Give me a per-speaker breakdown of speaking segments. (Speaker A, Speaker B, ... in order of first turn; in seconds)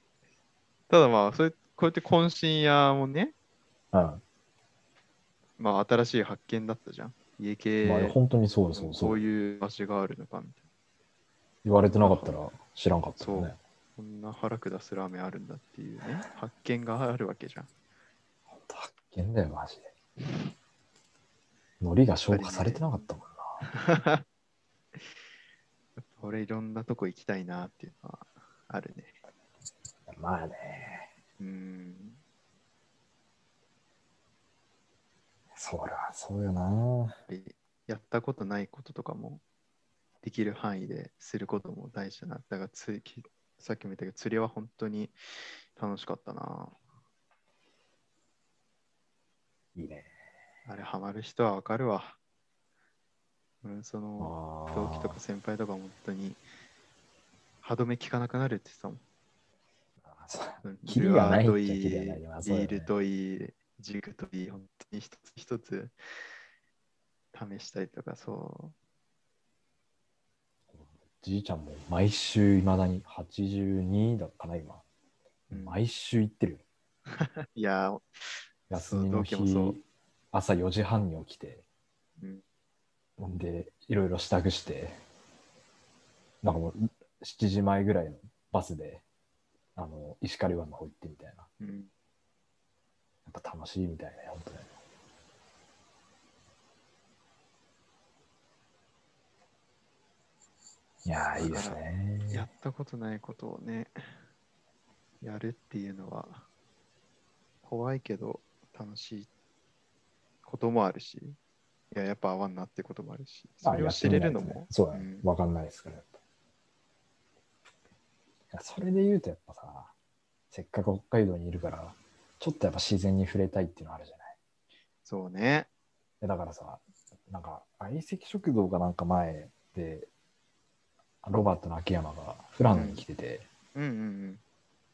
Speaker A: 0.9-3.3, 5.6-8.2, 8.8-10.6, 12.0-12.4, 13.2-17.7, 22.3-23.0, 23.6-24.2, 26.0-29.1, 31.4-32.2, 37.3-39.4, 40.2-46.7, 50.6-52.2, 53.6-56.4, 57.6-59.0, 60.6-66.0, 67.3-68.7, 75.5-75.8, 77.1-79.8, 91.6-91.9, 101.4-103.9, 105.2-106.5, 107.6-109.3, 110.4-111.4, 111.9-115.2, 125.0-125.7, 132.7-133.0, 133.7-134.4
Speaker B: 3.9-4.2, 7.8-9.3, 11.6-13.6, 18.5-19.9, 21.8-23.6, 30.1-31.1, 35.5-37.2, 49.7-50.1, 54.2-55.2, 60.0-62.9, 70.7-74.8, 75.5-76.6, 78.7-81.6, 83.2-85.0, 86.4-89.0, 89.8-91.5, 93.2-94.7, 101.0-102.4, 113.6-116.2, 118.5-119.9, 120.5-124.3, 126.2-130.1, 131.2-133.4